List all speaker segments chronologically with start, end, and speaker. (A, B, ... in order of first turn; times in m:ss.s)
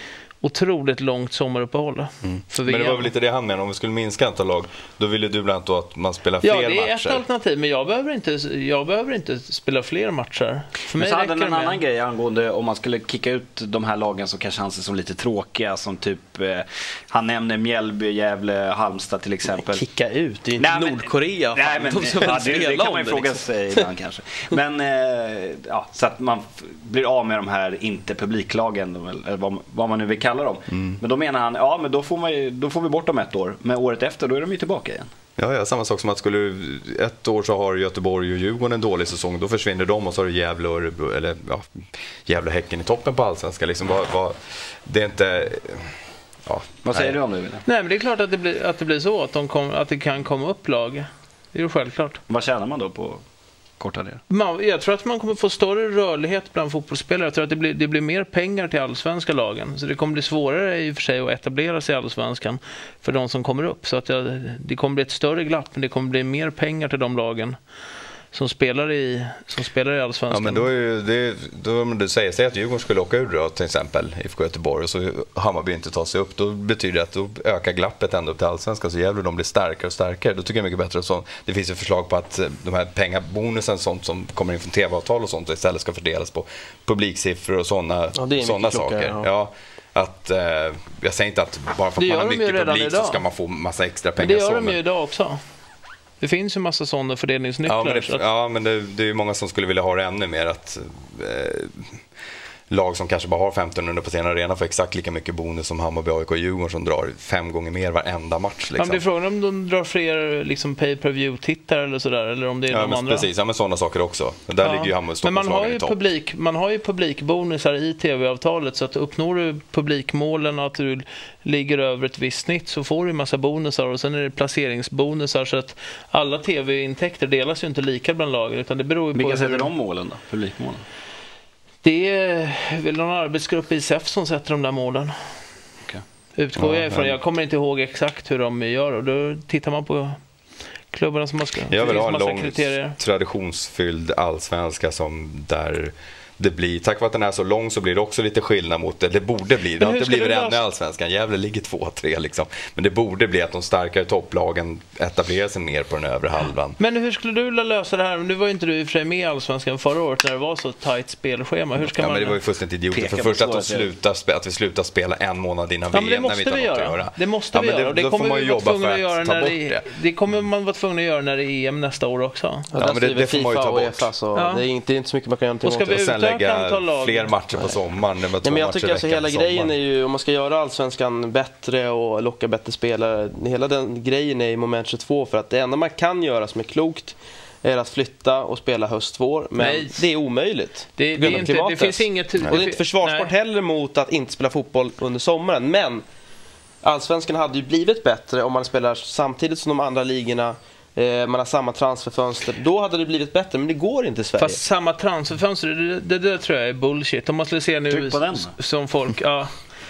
0:00.4-0:03.1 A
0:02.2-0:07.2 B
0:06.4-0:11.8 A
0:10.9-0:19.8 C
0:19.6-0:23.8 D
0:20.6-0:35.1 C
0:30.7-0:31.0 B
0:35.4-0:45.9 B
0:46.4-0:47.2 B
0:46.8-0:47.6 C
0:47.6-0:52.2 A
0:52.3-0:53.2 C
0:53.8-0:54.2 C
0:54.3-1:07.6 A
1:08.3-1:10.7 A
1:10.3-1:34.8 B
1:28.1-1:29.3 D
1:32.0-1:33.2 A
1:34.2-1:35.4 A
1:36.2-1:38.2 A
1:37.6-1:42.0 B
1:42.7-1:49.0 B
1:48.8-1:53.3 A
1:52.7-1:56.0 B
1:54.6-2:09.7 A
2:09.1-2:10.8 C
2:11.8-2:15.1 A
2:16.4-2:20.2 A
2:16.6-2:17.2 B
2:20.9-2:23.0 A
2:21.7-2:36.8 B
2:29.8-2:30.6 A
2:36.8-2:42.4 A
2:41.8-2:49.8 B
2:42.9-2:43.9 C
2:45.9-2:52.7 A
2:52.7-2:56.0 D
2:52.8-2:54.1 B
2:54.3-2:54.6 A
2:55.6-2:57.3 A
2:55.9-2:59.7 B
2:58.4-3:16.0 D
3:09.6-3:10.0 A
3:11.0-3:13.3 A
3:16.8-3:24.6 D
3:24.4-3:29.5 A
3:27.9-3:28.5 C